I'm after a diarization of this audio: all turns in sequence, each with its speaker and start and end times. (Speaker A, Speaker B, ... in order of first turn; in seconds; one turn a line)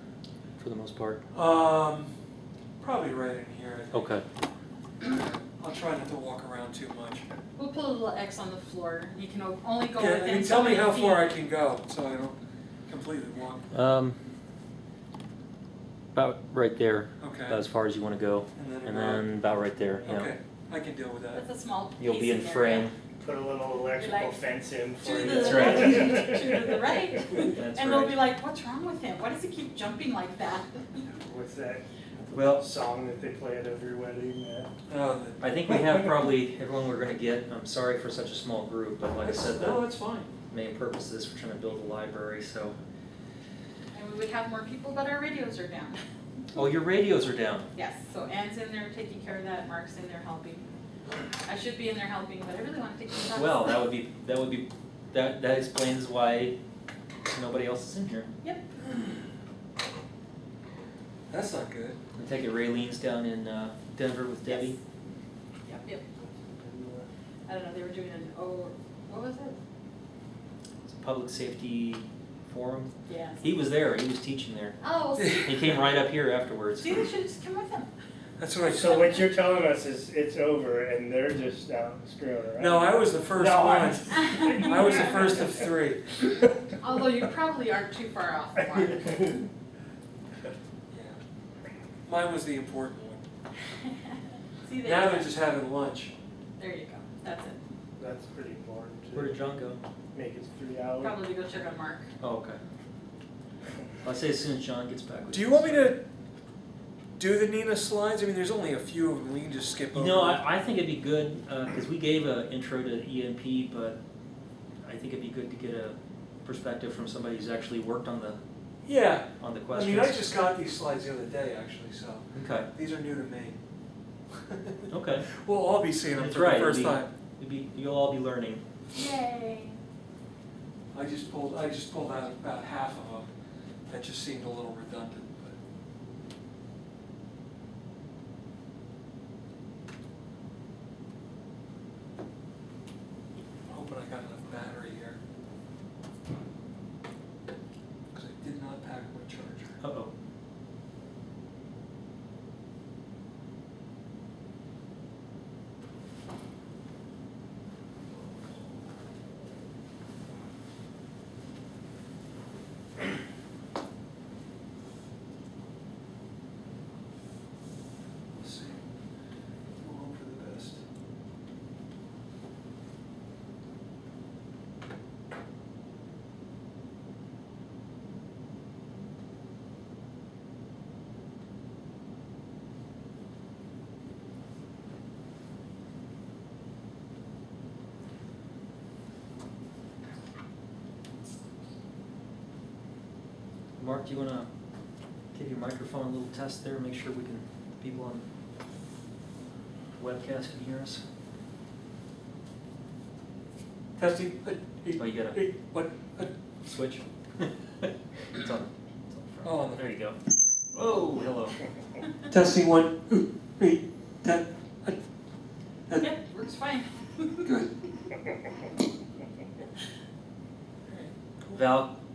Speaker A: 0.6-1.2
Speaker B: 1.3-2.1
Speaker B: 2.8-4.1
Speaker A: 3.9-4.2
Speaker B: 5.0-7.2
Speaker C: 7.5-11.4
Speaker B: 9.9-12.3
Speaker B: 12.9-13.7
Speaker A: 13.7-14.2
Speaker A: 16.1-20.3
Speaker B: 17.2-17.6
Speaker B: 18.6-19.3
Speaker B: 20.0-21.4
Speaker C: 21.3-22.9
Speaker A: 22.0-22.9
Speaker D: 23.2-26.7
Speaker C: 23.9-24.4
Speaker C: 25.0-31.0
Speaker A: 25.3-26.1
Speaker B: 25.8-26.2
Speaker A: 27.5-28.2
Speaker D: 31.1-31.8
Speaker A: 32.3-32.6
Speaker D: 32.4-34.7
Speaker B: 34.9-35.4
Speaker A: 35.4-39.9
Speaker B: 39.2-40.3
Speaker A: 40.5-42.8
Speaker C: 43.9-46.0
Speaker A: 46.5-47.7
Speaker C: 47.7-50.6
Speaker C: 51.4-53.8
Speaker A: 53.3-56.5
Speaker A: 57.3-58.3
Speaker C: 58.4-58.7
Speaker B: 61.3-62.0
Speaker A: 62.1-64.8
Speaker C: 64.4-64.8
Speaker C: 65.6-66.0
Speaker D: 66.1-67.1
Speaker C: 67.5-69.6
Speaker A: 70.8-74.8
Speaker C: 73.1-73.4
Speaker C: 74.8-75.7
Speaker B: 75.2-75.6
Speaker A: 75.4-76.9
Speaker C: 76.8-77.9
Speaker B: 78.4-79.2
Speaker D: 78.7-85.6
Speaker B: 82.6-86.2
Speaker C: 84.1-85.1
Speaker C: 86.8-89.3
Speaker B: 90.9-91.2
Speaker B: 92.0-93.2
Speaker C: 94.6-95.3
Speaker B: 94.8-96.1
Speaker C: 96.6-97.6
Speaker D: 98.0-99.4
Speaker A: 99.1-99.8
Speaker D: 100.1-101.2
Speaker C: 101.0-102.1
Speaker A: 102.2-102.6
Speaker A: 104.0-105.9
Speaker B: 105.3-106.0
Speaker B: 107.2-110.4
Speaker A: 109.9-114.0
Speaker A: 114.8-118.4
Speaker B: 118.8-123.6
Speaker A: 119.4-120.2
Speaker A: 122.3-122.7
Speaker B: 124.3-127.1
Speaker A: 124.9-125.3
Speaker A: 126.1-128.6
Speaker C: 128.9-129.8
Speaker B: 130.9-133.3
Speaker B: 133.9-135.6
Speaker B: 143.7-145.2
Speaker B: 148.1-149.8
Speaker A: 149.8-150.1
Speaker B: 168.3-168.8
Speaker B: 169.8-170.8
Speaker A: 193.8-194.5
Speaker A: 195.3-198.2
Speaker A: 199.9-201.0
Speaker B: 204.0-206.3
Speaker A: 205.0-205.4
Speaker A: 206.7-210.2
Speaker B: 209.4-209.8
Speaker A: 210.7-211.6
Speaker B: 212.3-215.0
Speaker C: 216.0-217.5
Speaker B: 217.4-217.7
Speaker A: 221.5-221.9